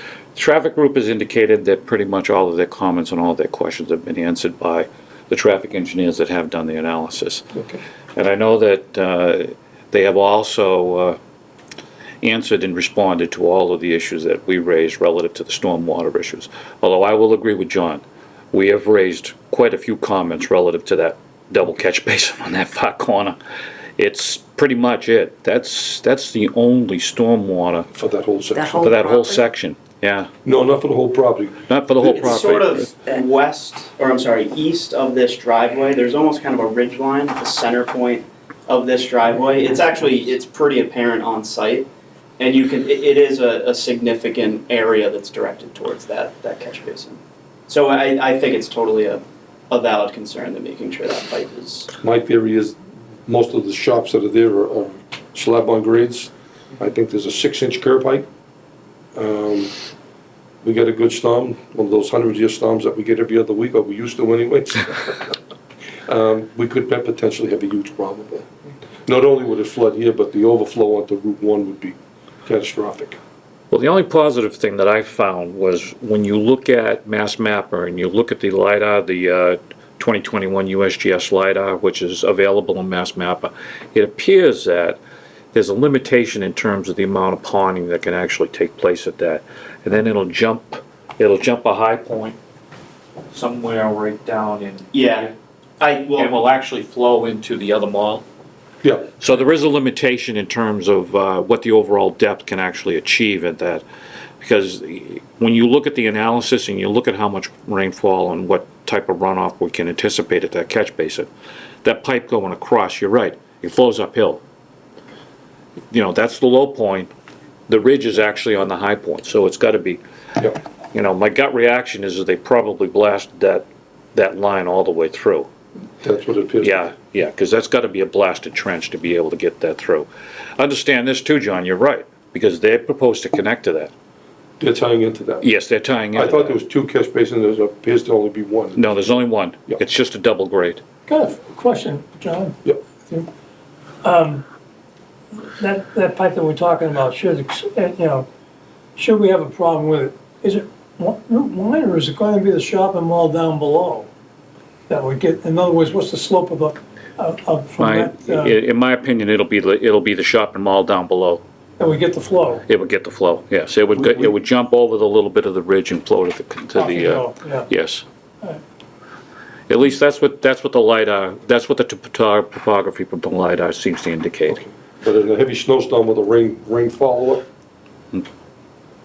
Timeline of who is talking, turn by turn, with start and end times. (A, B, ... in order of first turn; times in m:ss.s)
0:00.4-0:07.5 A
0:08.2-0:11.2 A
0:12.2-0:23.4 A
0:24.0-0:27.9 A
0:27.9-0:29.0 B
0:28.8-0:30.3 A
0:30.4-0:31.6 B
0:31.7-0:32.9 A
0:32.0-0:41.9 C
0:42.4-0:51.9 C
0:52.0-0:52.8 B
0:53.3-0:58.3 B
0:59.2-0:59.7 B
1:00.6-1:05.4 B
1:06.1-1:08.5 B
1:09.1-1:13.2 B
1:13.7-1:25.0 A
1:25.5-1:32.4 A
1:33.3-1:35.3 A
1:34.9-1:36.3 C
1:36.1-1:38.2 A
1:38.8-1:39.2 B
1:39.2-1:43.8 A
1:44.4-1:51.3 A
1:51.8-1:54.4 A
1:55.9-1:57.1 A
1:57.7-2:00.0 A
2:00.9-2:05.5 A
2:06.0-2:06.9 B
2:06.6-2:13.9 A
2:14.6-2:15.5 B
2:15.4-2:16.6 A
2:16.2-2:18.9 B
2:18.8-2:20.8 A
2:21.1-2:22.6 D
2:24.0-2:24.4 D
2:25.6-2:28.3 D
2:29.0-2:34.1 D
2:34.9-2:38.6 D
2:37.8-2:41.4 A
2:41.8-2:42.6 D
2:42.7-2:48.0 A
2:44.0-2:44.3 B
2:46.8-2:47.7 D
2:49.7-2:54.6 A
2:54.5-2:57.4 B